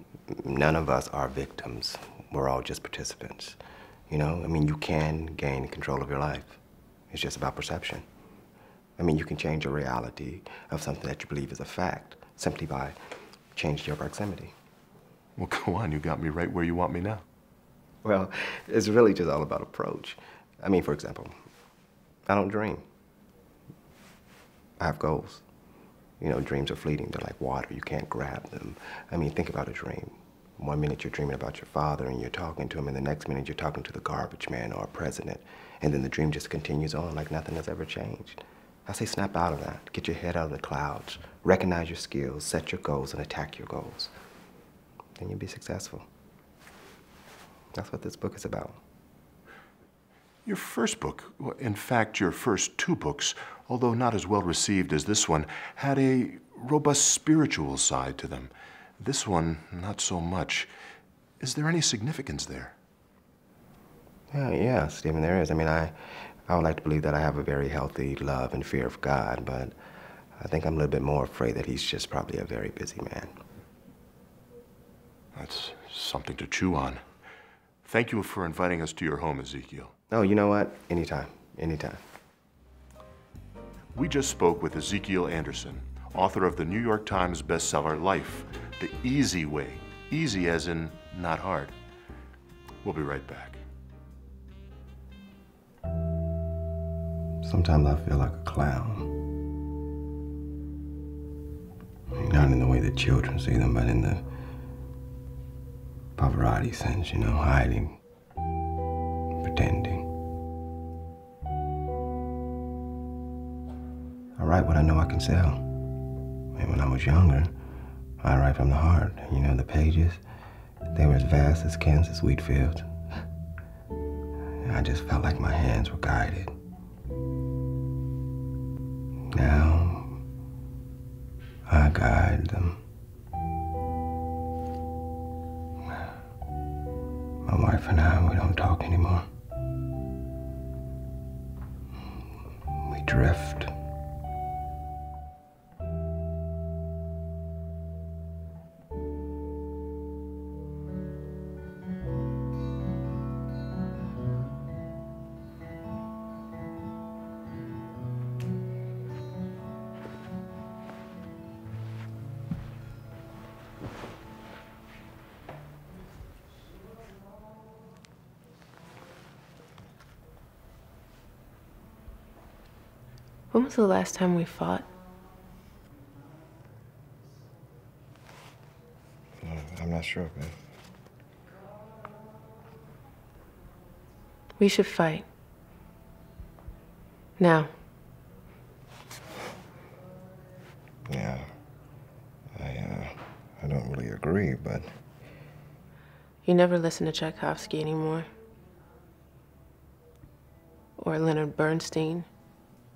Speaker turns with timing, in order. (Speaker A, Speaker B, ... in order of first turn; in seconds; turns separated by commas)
Speaker A: 0.3-3.6, Speaker A: 4.1-6.6, Speaker A: 7.1-8.0, Speaker A: 9.0-13.0, Speaker A: 13.5-14.5, Speaker B: 15.4-17.2, Speaker A: 18.0-21.4, Speaker A: 22.3-22.8, Speaker A: 24.8-25.4, Speaker A: 26.2-44.1, Speaker A: 45.2-46.1, Speaker A: 47.7-48.8, Speaker B: 50.4-60.7, Speaker B: 61.4-62.8, Speaker A: 64.3-69.7, Speaker A: 70.4-73.3, Speaker B: 75.3-77.0, Speaker B: 77.8-79.9, Speaker A: 80.1-82.0, Speaker B: 83.9-91.8, Speaker B: 92.8-93.6, Speaker A: 97.4-99.1, Speaker A: 102.1-104.2, Speaker A: 106.2-108.0, Speaker A: 109.4-110.0, Speaker A: 114.4-115.6, Speaker A: 116.5-117.5, Speaker A: 118.2-120.2, Speaker A: 120.9-122.9, Speaker A: 124.6-126.5, Speaker A: 129.3-130.2, Speaker A: 131.7-132.8, Speaker A: 135.8-136.1, Speaker A: 137.4-139.3, Speaker A: 142.8-143.7, Speaker C: 173.5-174.9, Speaker A: 179.4-180.5, Speaker C: 184.6-185.2, Speaker C: 187.4-187.7, Speaker A: 191.1-191.5, Speaker A: 192.5-194.9, Speaker C: 196.4-198.3, Speaker C: 201.0-202.3